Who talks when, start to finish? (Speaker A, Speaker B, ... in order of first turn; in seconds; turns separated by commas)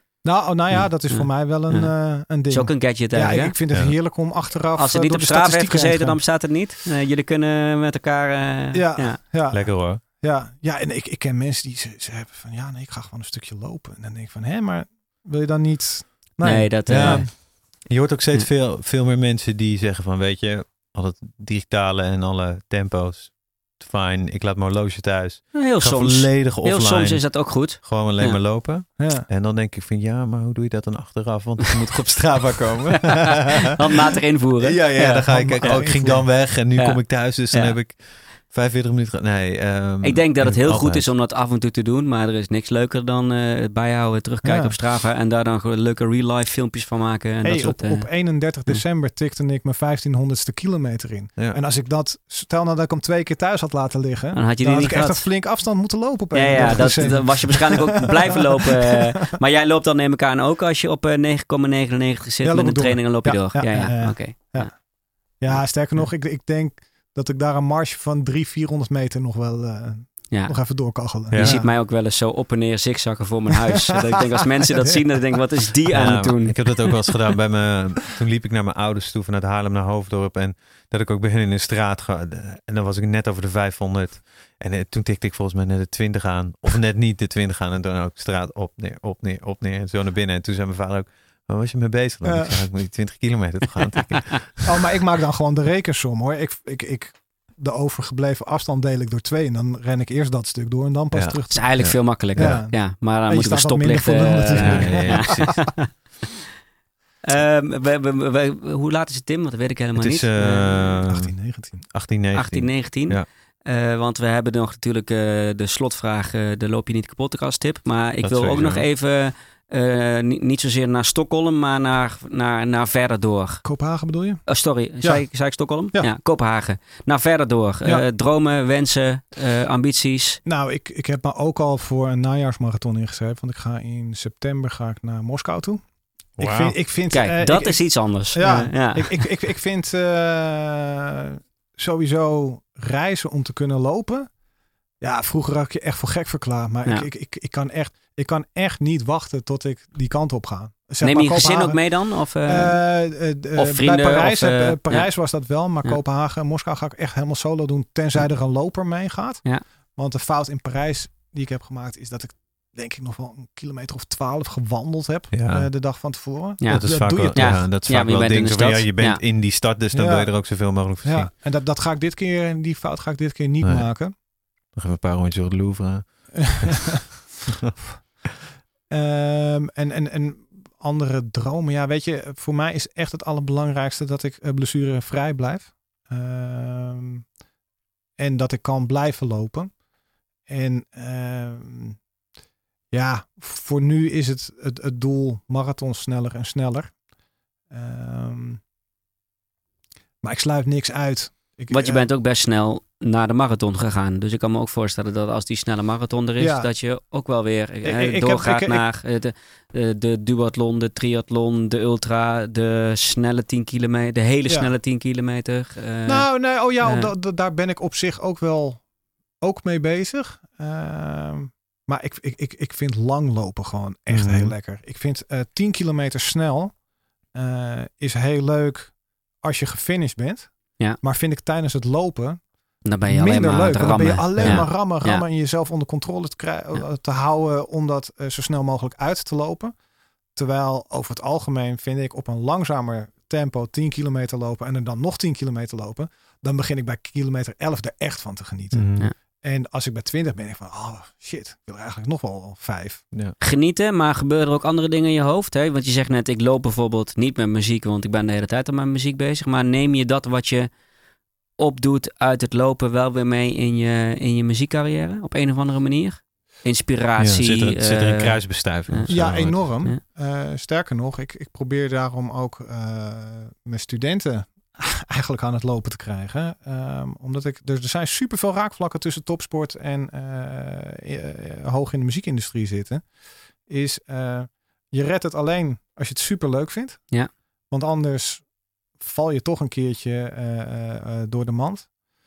Speaker A: 0.2-6.2, Speaker B: 0.7-1.9, Speaker B: 2.5-3.5, Speaker B: 4.7-9.2, Speaker A: 8.7-17.3, Speaker C: 9.5-10.0, Speaker B: 16.4-17.3, Speaker C: 16.9-33.7, Speaker B: 25.5-28.4, Speaker A: 29.0-29.3, Speaker B: 32.9-33.1, Speaker B: 33.7-37.8, Speaker C: 34.6-41.1, Speaker A: 35.2-36.3, Speaker B: 40.0-48.1, Speaker A: 44.4-44.7, Speaker A: 47.4-58.3, Speaker B: 54.3-55.3, Speaker B: 56.3-64.7, Speaker A: 62.4-64.8, Speaker A: 65.4-71.7, Speaker B: 65.5-66.1, Speaker C: 71.3-71.6, Speaker B: 71.3-76.9, Speaker C: 75.9-94.7, Speaker A: 92.2-92.6, Speaker A: 94.6-105.5, Speaker C: 101.1-102.6, Speaker B: 101.5-105.9, Speaker C: 104.6-105.5, Speaker B: 107.2-110.9, Speaker C: 110.0-111.3, Speaker A: 111.0-111.8, Speaker C: 111.9-113.2, Speaker B: 112.3-123.6, Speaker C: 118.2-118.8, Speaker A: 123.6-124.5, Speaker B: 124.5-130.4, Speaker A: 130.4-135.8, Speaker C: 136.4-136.7, Speaker A: 136.4-144.3, Speaker B: 137.1-139.2, Speaker A: 145.0-167.6, Speaker B: 151.0-152.8, Speaker B: 153.5-155.1, Speaker C: 165.3-165.7, Speaker B: 166.6-169.2, Speaker C: 166.7-171.3, Speaker A: 169.9-170.3, Speaker A: 171.0-174.1, Speaker C: 173.6-173.9, Speaker C: 174.7-177.7, Speaker A: 176.4-177.1, Speaker A: 178.9-187.2, Speaker A: 188.2-189.7, Speaker A: 190.5-192.0, Speaker A: 192.9-196.9, Speaker A: 197.7-198.6, Speaker A: 200.2-202.0, Speaker B: 201.7-216.3, Speaker A: 206.4-206.7, Speaker A: 207.8-208.8, Speaker A: 216.1-218.8, Speaker B: 216.8-217.1, Speaker A: 219.4-226.8, Speaker C: 224.1-224.5, Speaker A: 227.3-232.4, Speaker B: 232.8-235.2, Speaker A: 233.1-239.7, Speaker C: 234.4-234.7, Speaker A: 240.3-248.9, Speaker C: 248.7-249.1, Speaker A: 249.4-253.0, Speaker B: 253.4-260.7, Speaker B: 261.6-270.0, Speaker C: 267.2-269.8, Speaker A: 269.1-283.1, Speaker A: 283.7-287.1, Speaker A: 287.7-288.5, Speaker A: 289.0-291.9